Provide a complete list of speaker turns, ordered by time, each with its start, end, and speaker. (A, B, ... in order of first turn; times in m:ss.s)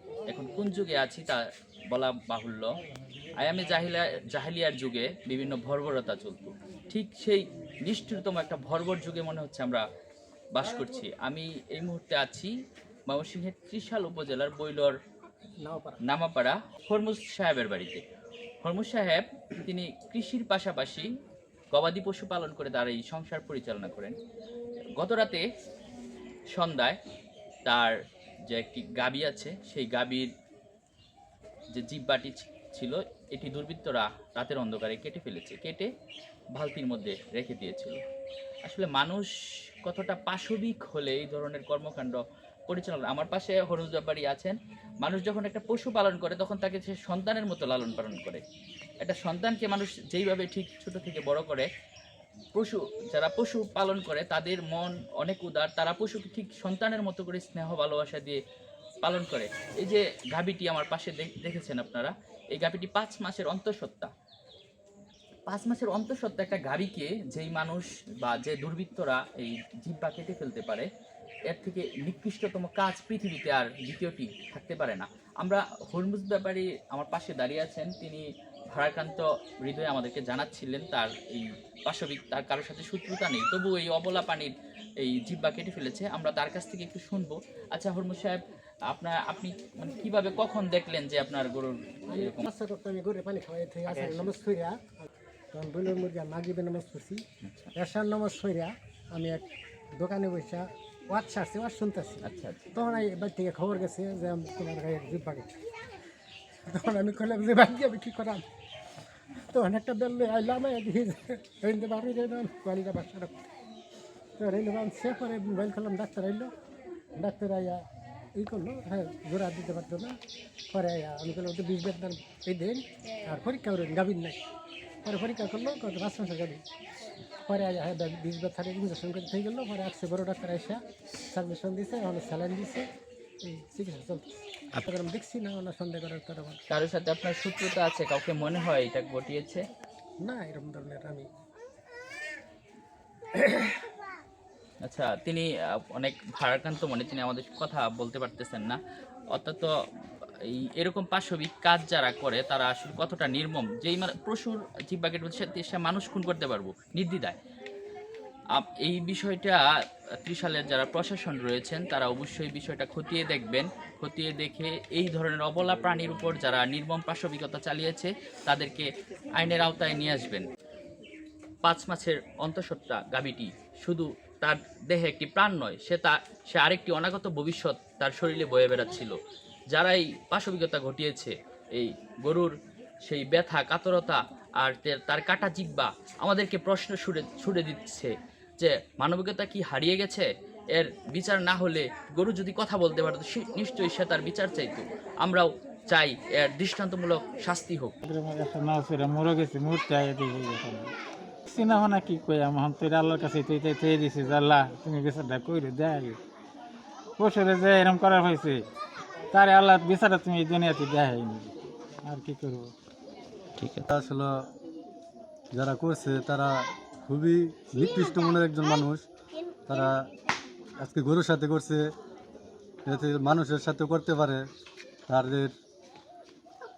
0:00.3-0:02.7 A
0:03.4-0:09.8 A
0:10.5-0:12.5 A
0:13.1-0:15.0 A
0:15.6-0:16.0 B
0:16.0-0:18.0 A
0:18.6-0:21.1 A
0:21.7-0:24.2 A
0:25.0-0:25.4 A
0:26.5-0:27.0 A
0:27.6-0:28.0 A
0:28.5-0:30.3 A
0:31.7-0:35.9 A
0:36.6-0:38.0 A
0:38.6-0:39.3 A
0:39.8-0:48.4 A
0:49.0-0:51.7 A
0:52.5-0:58.4 A
0:59.0-1:04.1 A
1:05.4-1:10.9 A
1:11.5-1:32.5 A
1:32.1-1:37.2 B
1:33.9-1:34.3 C
1:37.4-1:37.7 A
1:37.7-1:39.4 B
1:40.0-1:42.2 B
1:42.2-1:42.7 A
1:42.7-1:45.5 B
1:46.7-1:48.4 B
1:49.5-1:53.4 B
1:54.4-1:56.5 B
1:57.2-1:57.8 B
1:58.4-2:00.2 B
2:00.7-2:04.4 B
2:05.0-2:06.6 B
2:07.4-2:10.8 B
2:11.3-2:12.9 B
2:13.4-2:16.6 B
2:16.7-2:19.6 A
2:20.2-2:21.3 B
2:24.8-2:28.8 A
2:29.3-2:29.7 A
2:30.4-2:37.4 A
2:38.5-2:39.6 A
2:40.2-2:50.5 A
2:51.6-2:59.2 A
2:59.7-3:02.5 A
3:03.0-3:17.9 A
3:18.0-3:20.9 C
3:21.5-3:26.2 C
3:27.2-3:28.6 C
3:29.3-3:31.5 C
3:32.0-3:32.7 C
3:33.9-3:34.3 D
3:35.5-3:36.5 D
3:37.0-3:39.0 D
3:39.7-3:40.0 D
3:40.8-3:41.8 D
3:42.8-3:44.4 D
3:45.1-3:45.5 D